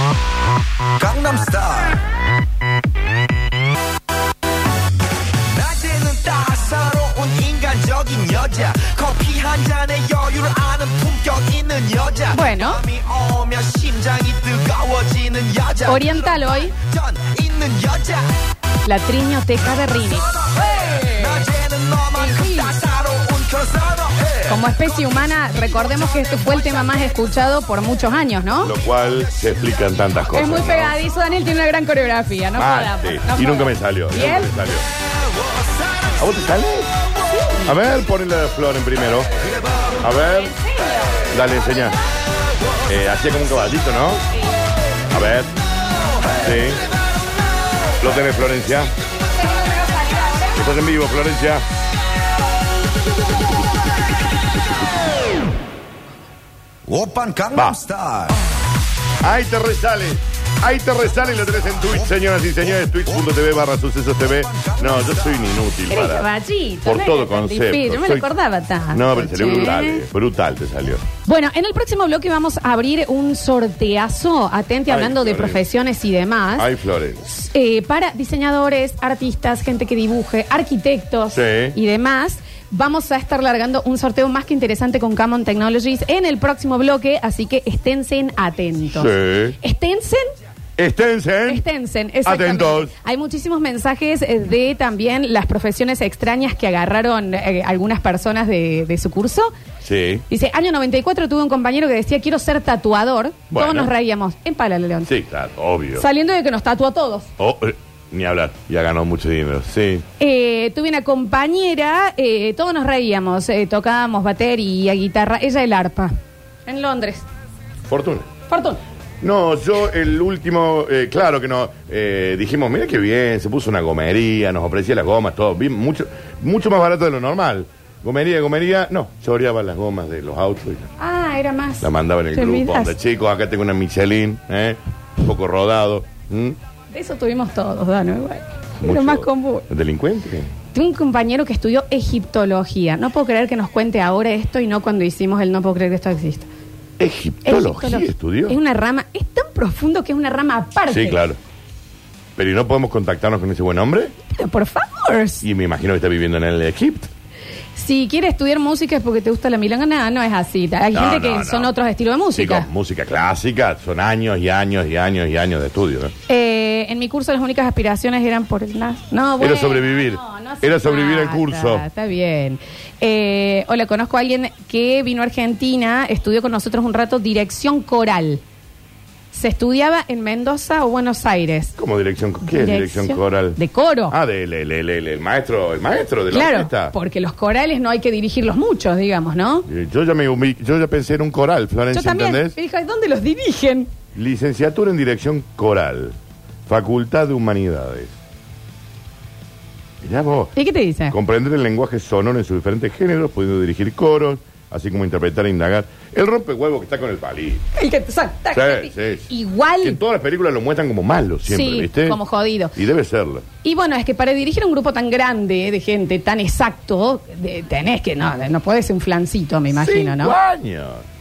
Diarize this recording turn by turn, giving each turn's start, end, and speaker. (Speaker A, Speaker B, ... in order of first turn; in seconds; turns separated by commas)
Speaker A: 1.0-2.0, Speaker A: 5.5-18.3, Speaker B: 12.3-12.8, Speaker B: 15.9-16.8, Speaker B: 18.9-21.5, Speaker A: 20.7-25.9, Speaker B: 22.1-22.8, Speaker B: 24.5-28.7, Speaker C: 28.6-31.0, Speaker B: 30.3-34.5, Speaker C: 32.6-34.9, Speaker C: 36.2-36.9, Speaker C: 37.6-39.5, Speaker C: 40.0-40.5, Speaker B: 40.3-41.2, Speaker C: 41.3-42.0, Speaker C: 42.9-44.2, Speaker C: 45.1-45.5, Speaker C: 46.4-46.9, Speaker C: 48.0-48.9, Speaker B: 49.4-50.6, Speaker C: 50.5-51.6, Speaker A: 56.9-58.4, Speaker C: 57.5-57.8, Speaker C: 59.2-66.3, Speaker A: 64.4-65.4, Speaker B: 65.9-70.0, Speaker C: 66.8-68.3, Speaker C: 68.9-71.0, Speaker B: 71.2-76.7, Speaker C: 74.9-75.6, Speaker C: 76.6-77.3, Speaker B: 77.3-90.3, Speaker C: 81.3-81.8, Speaker C: 88.9-89.6, Speaker C: 90.8-91.6, Speaker B: 91.5-99.5, Speaker C: 92.2-92.9, Speaker C: 99.8-100.2, Speaker B: 100.3-105.1, Speaker C: 103.5-103.9, Speaker C: 105.1-106.1, Speaker B: 106.0-107.3, Speaker C: 107.4-110.0, Speaker B: 110.2-116.1, Speaker B: 116.7-117.2, Speaker C: 117.9-118.3, Speaker B: 118.5-118.8, Speaker C: 119.2-130.9, Speaker B: 131.0-132.9, Speaker C: 131.8-136.6, Speaker B: 136.9-139.7, Speaker C: 138.8-140.5, Speaker B: 140.7-146.5, Speaker C: 147.0-148.6, Speaker B: 147.4-151.2, Speaker C: 150.9-151.4, Speaker C: 152.4-154.1, Speaker B: 154.3-155.4, Speaker C: 155.4-157.1, Speaker B: 157.8-162.7, Speaker C: 160.9-161.7, Speaker C: 162.4-166.1, Speaker B: 166.3-178.4, Speaker C: 169.4-171.8, Speaker B: 179.3-181.8, Speaker C: 181.8-183.6, Speaker B: 182.4-184.2, Speaker C: 184.1-186.9, Speaker B: 186.3-189.7, Speaker C: 189.7-192.6, Speaker B: 191.9-193.9, Speaker C: 194.2-196.2, Speaker C: 196.7-198.1, Speaker C: 200.0-200.5, Speaker B: 200.6-201.2, Speaker C: 201.1-207.6, Speaker B: 207.8-210.0, Speaker C: 208.5-209.3, Speaker C: 209.8-212.2, Speaker B: 211.5-212.8, Speaker C: 212.8-213.5, Speaker B: 213.6-220.4, Speaker C: 219.7-221.0